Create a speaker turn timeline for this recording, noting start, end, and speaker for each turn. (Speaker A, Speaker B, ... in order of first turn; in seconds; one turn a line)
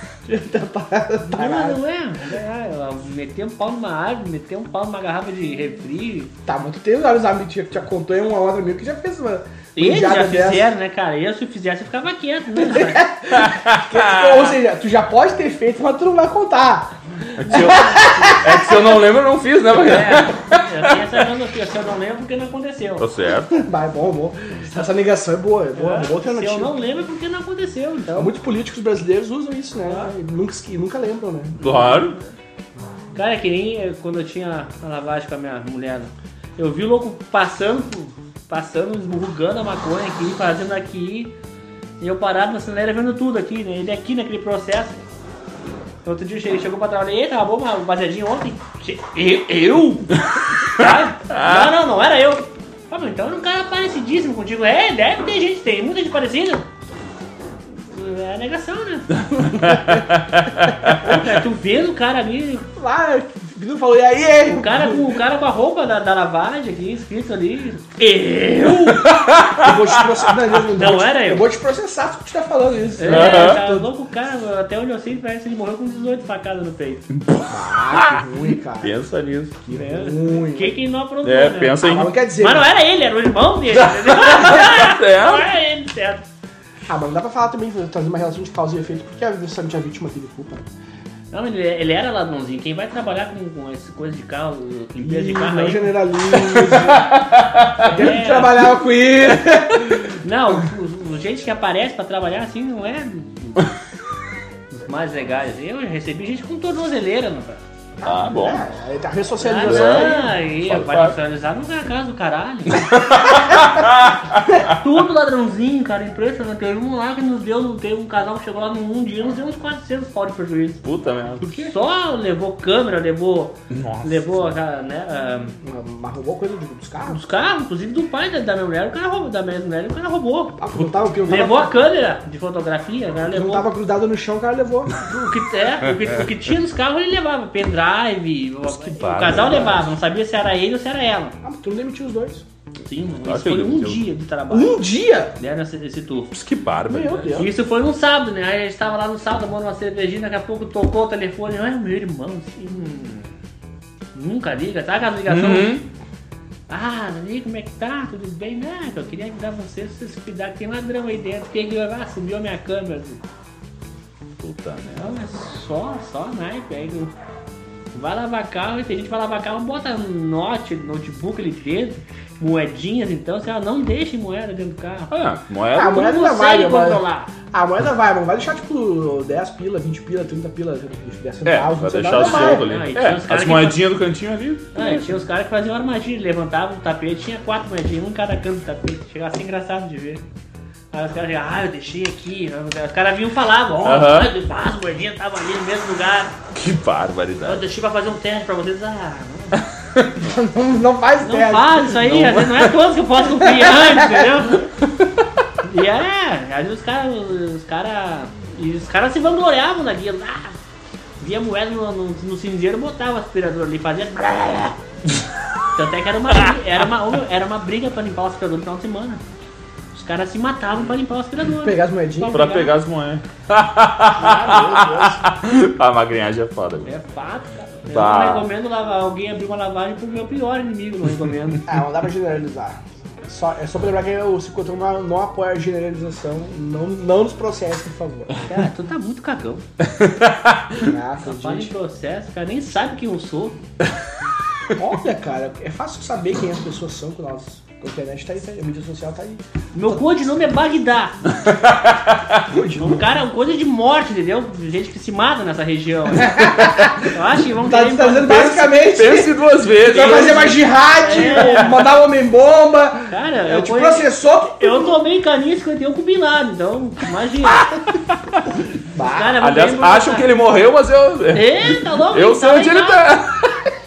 Speaker A: 0.3-1.8
Speaker B: 1.3-6.3
Speaker A: 6.5-10.7
Speaker B: 9.8-13.1
Speaker A: 12.6-18.9
Speaker C: 13.3-14.6
Speaker C: 17.4-21.0
Speaker B: 17.5-18.4
Speaker B: 19.8-23.1
Speaker C: 23.0-23.6
Speaker A: 23.5-26.7
Speaker B: 25.8-28.3
Speaker A: 28.1-31.6
Speaker B: 29.9-30.1
Speaker C: 31.6-32.2
Speaker B: 31.6-32.2
Speaker B: 33.1-41.3
Speaker B: 42.0-45.0
Speaker B: 46.0-56.7
Speaker C: 50.6-51.7
Speaker B: 57.8-59.2
Speaker C: 59.3-61.1
Speaker A: 59.5-60.0
Speaker B: 60.9-62.7
Speaker A: 62.8-65.1
Speaker B: 64.5-69.1
Speaker C: 69.0-70.2
Speaker A: 69.6-73.9
Speaker B: 70.8-71.5
Speaker B: 73.0-77.1
Speaker C: 73.0-73.6
Speaker C: 77.2-78.3
Speaker A: 77.5-79.0
Speaker C: 78.8-79.6
Speaker A: 79.6-80.8
Speaker B: 79.7-86.2
Speaker C: 81.2-82.1
Speaker A: 81.8-82.7
Speaker C: 83.7-85.5
Speaker A: 86.9-90.7
Speaker B: 91.3-96.0
Speaker A: 95.2-97.2
Speaker C: 96.3-97.9
Speaker B: 97.8-98.6
Speaker A: 97.8-100.2
Speaker B: 100.2-103.7
Speaker B: 104.7-107.6
Speaker A: 108.0-110.3
Speaker C: 108.0-108.6
Speaker B: 109.4-112.9
Speaker C: 109.7-111.2
Speaker C: 112.7-114.2
Speaker B: 114.7-120.9
Speaker C: 120.8-121.5
Speaker B: 121.5-125.6
Speaker C: 123.7-124.2
Speaker A: 125.6-127.2
Speaker B: 127.1-130.6
Speaker A: 130.6-131.7
Speaker B: 131.3-133.7
Speaker A: 133.3-134.9
Speaker B: 135.0-141.3
Speaker C: 138.7-139.9
Speaker A: 141.4-142.4
Speaker B: 142.8-144.8
Speaker C: 143.2-144.0
Speaker A: 144.5-145.4
Speaker B: 145.4-146.3
Speaker C: 146.3-147.4
Speaker A: 146.9-147.5
Speaker B: 147.3-153.3
Speaker B: 154.2-155.8
Speaker C: 155.3-155.8
Speaker B: 156.7-163.2
Speaker C: 164.4-165.1
Speaker B: 164.9-167.1
Speaker B: 167.9-175.1
Speaker C: 175.1-176.1
Speaker A: 175.8-182.7
Speaker B: 175.9-177.3
Speaker C: 181.4-185.1
Speaker B: 182.1-183.8
Speaker B: 184.7-190.2
Speaker B: 190.9-196.3
Speaker C: 193.8-194.3
Speaker C: 196.5-197.6
Speaker B: 197.4-199.6
Speaker C: 199.6-200.1
Speaker A: 200.2-202.1
Speaker B: 201.2-204.7
Speaker C: 201.9-202.7
Speaker A: 203.3-204.5
Speaker B: 205.6-210.6
Speaker B: 211.2-214.8
Speaker B: 215.8-219.2
Speaker B: 219.9-222.7
Speaker A: 221.6-222.4
Speaker C: 222.3-226.9
Speaker A: 224.2-225.2
Speaker B: 224.6-224.9
Speaker B: 226.9-231.6
Speaker C: 227.9-228.5
Speaker A: 231.7-238.3
Speaker B: 238.5-239.7
Speaker C: 239.9-240.8
Speaker A: 240.8-241.8
Speaker B: 241.2-243.6
Speaker A: 244.8-250.0
Speaker B: 249.7-251.2
Speaker C: 251.3-252.4
Speaker A: 252.5-253.0
Speaker B: 252.8-258.6
Speaker A: 256.1-265.0
Speaker C: 256.6-257.0
Speaker C: 258.6-260.5
Speaker B: 259.8-261.8
Speaker B: 263.1-264.1
Speaker B: 264.6-267.7
Speaker C: 267.5-268.2
Speaker A: 268.9-269.4
Speaker B: 269.0-270.3
Speaker C: 269.4-273.6
Speaker B: 271.3-273.2